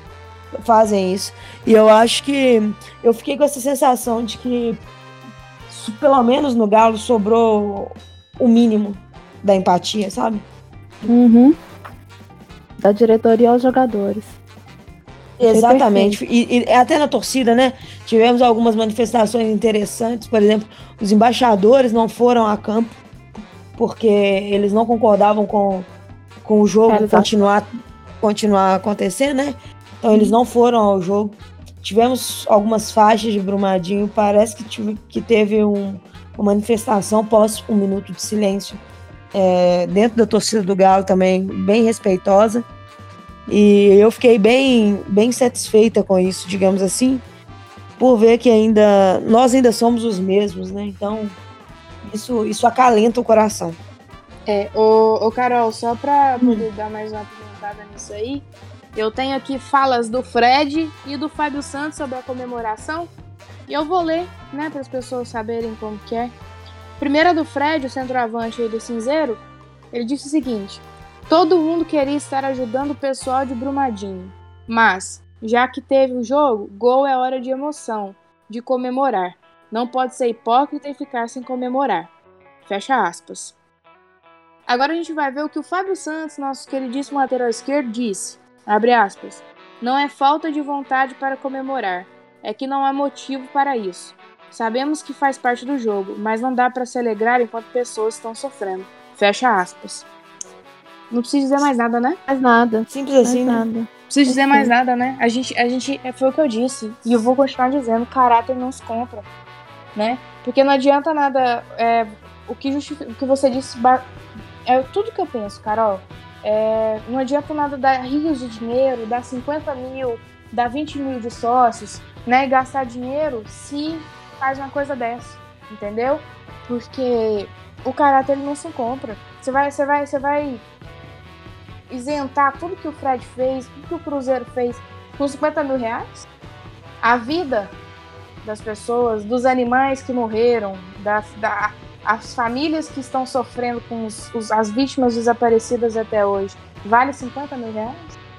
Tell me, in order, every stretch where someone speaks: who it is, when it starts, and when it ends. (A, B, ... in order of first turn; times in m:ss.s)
0:00.6-0:04.8 A
0:05.7-0:10.4 A
0:11.0-0:11.6 B
0:12.8-0:14.4 B
0:15.4-0:23.0 A
0:15.4-0:16.2 B
0:23.8-0:25.9 A
0:26.4-0:27.6 A
0:26.9-0:27.3 B
0:28.2-0:38.8 A
0:39.3-0:42.6 A
0:43.5-0:47.2 A
0:48.0-0:51.4 A
0:52.0-0:53.8 A
0:54.5-1:03.1 C
1:03.7-1:06.3 C
1:07.0-1:09.4 C
1:09.9-1:22.1 C
1:22.6-1:23.6 C
1:24.7-1:40.0 C
1:41.1-1:42.2 C
1:42.3-1:44.7 B
1:42.9-1:43.7 A
1:44.1-1:49.2 C
1:50.0-1:54.0 C
1:54.6-2:10.6 C
2:11.9-2:16.3 C
2:17.0-2:17.7 C
2:18.4-2:28.2 C